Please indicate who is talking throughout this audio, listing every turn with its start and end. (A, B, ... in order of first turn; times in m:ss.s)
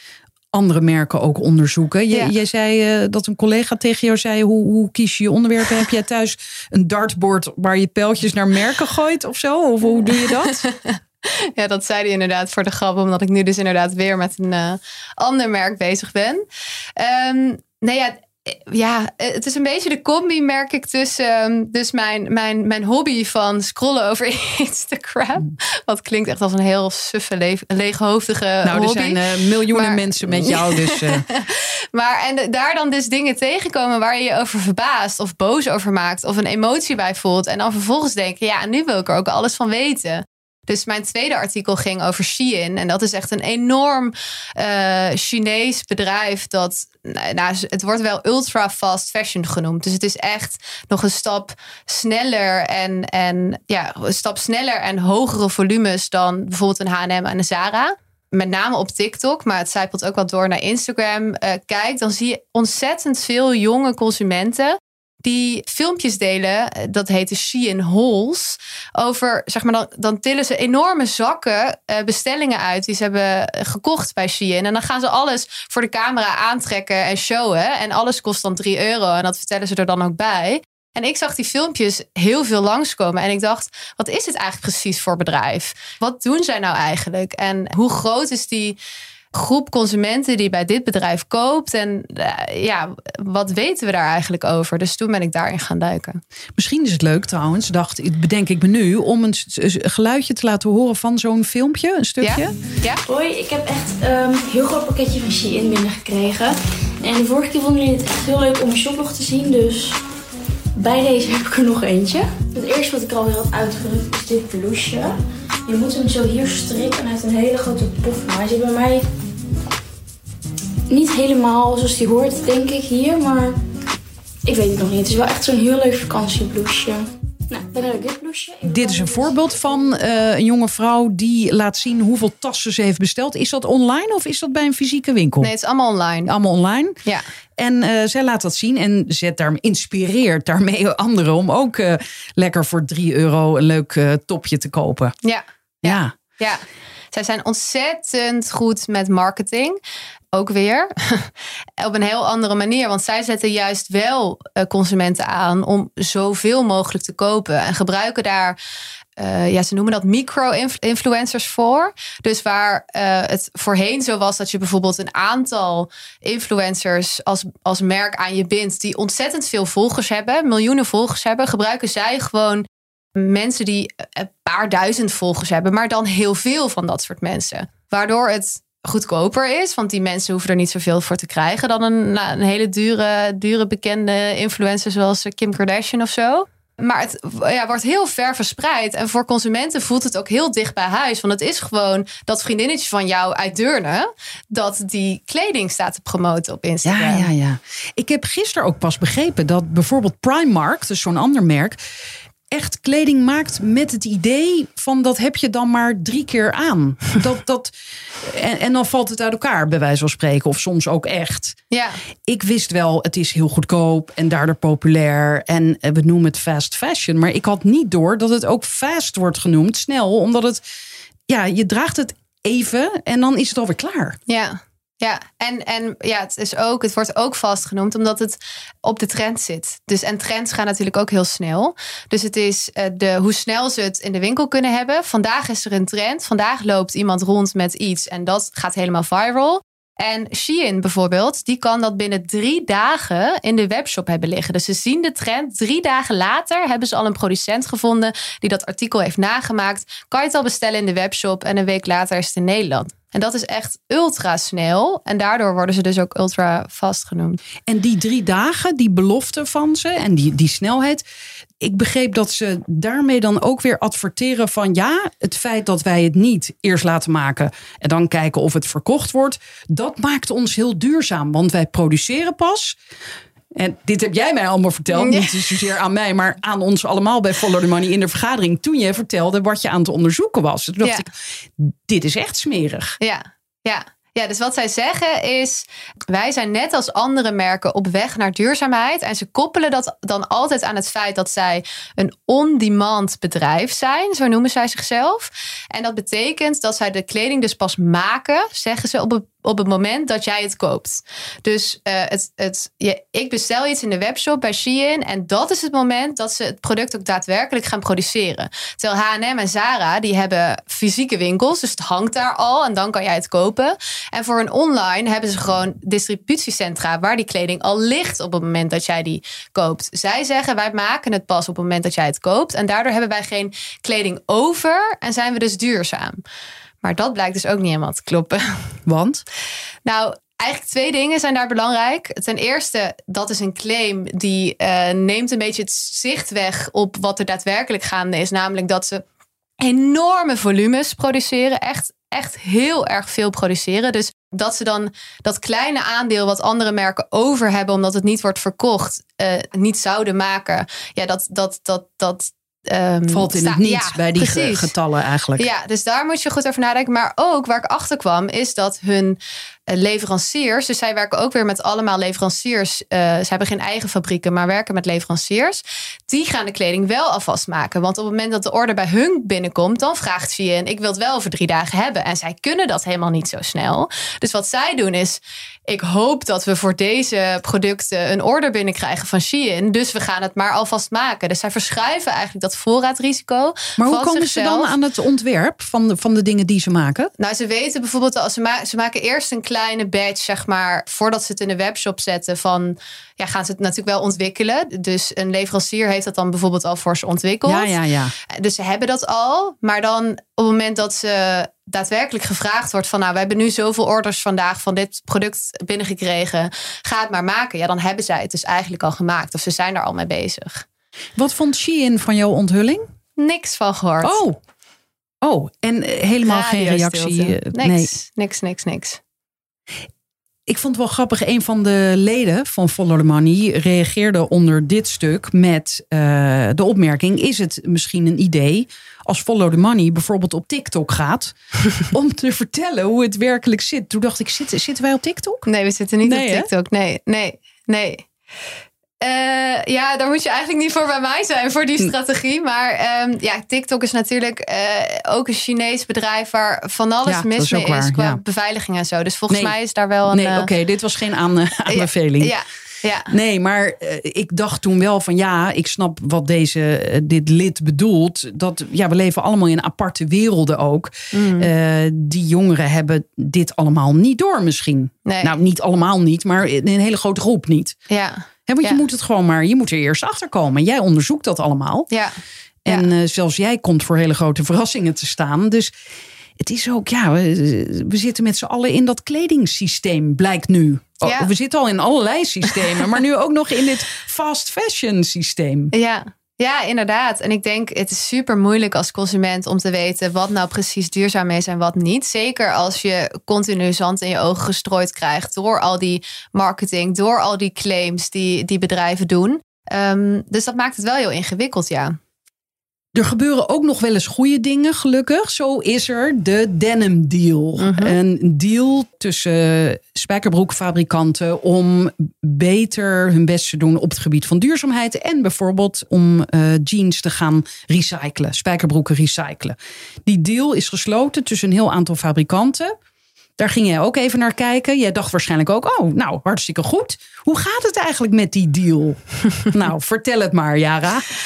0:00.5-0:10.6 A
0:10.0-1:28.8 B
0:28.6-0:31.2 A
1:29.3-1:36.2 B
1:36.6-1:42.5 A
1:42.2-1:43.0 B
1:43.0-1:50.0 C
1:50.7-1:59.0 C
2:00.9-2:03.5 C
2:04.4-2:09.3 C
2:08.6-2:15.5 A
2:15.4-2:16.3 B
2:16.2-2:17.0 A
2:17.6-2:25.1 A
2:25.2-2:29.8 B
2:25.8-2:26.2 A
2:30.3-2:38.6 B
2:39.2-3:17.3 B
3:16.8-3:21.8 A
3:22.5-3:31.6 A
3:31.7-3:32.0 B
3:32.3-3:40.6 A
3:41.3-3:44.2 A
3:44.3-4:17.4 B
4:17.7-4:21.0 A
4:21.6-4:32.8 A
4:33.5-4:43.0 A
4:34.9-4:35.4 B
4:43.0-5:26.2 B
5:26.8-5:28.6 B
5:28.8-5:29.2 A
5:29.8-5:39.0 B
5:39.6-5:54.7 B
5:53.1-5:55.5 A
5:55.4-6:24.7 B
6:23.8-6:27.1 A
6:27.2-6:50.6 B
6:37.4-6:38.1 A
6:51.2-6:52.9 A
6:53.2-6:54.2 B
6:54.0-6:54.4 A
6:55.2-6:57.9 A
6:56.2-6:59.0 B
7:00.5-7:15.4 A
7:15.4-7:18.1 B
7:16.0-7:16.5 A
7:19.0-7:30.5 B
7:27.0-7:28.2 A
7:29.3-7:29.5 A
7:30.1-7:32.3 A
7:31.7-7:33.1 B
7:33.1-7:47.8 A
7:41.1-7:41.5 B
7:45.0-7:45.3 B
7:47.9-7:48.8 B
7:48.5-7:51.9 A
7:51.9-7:52.9 B
7:52.6-7:55.7 A
7:56.4-8:05.7 A
8:01.0-8:01.3 B
8:05.7-8:22.0 B
8:22.9-8:42.7 A
8:27.6-8:28.0 B
8:43.4-8:51.0 A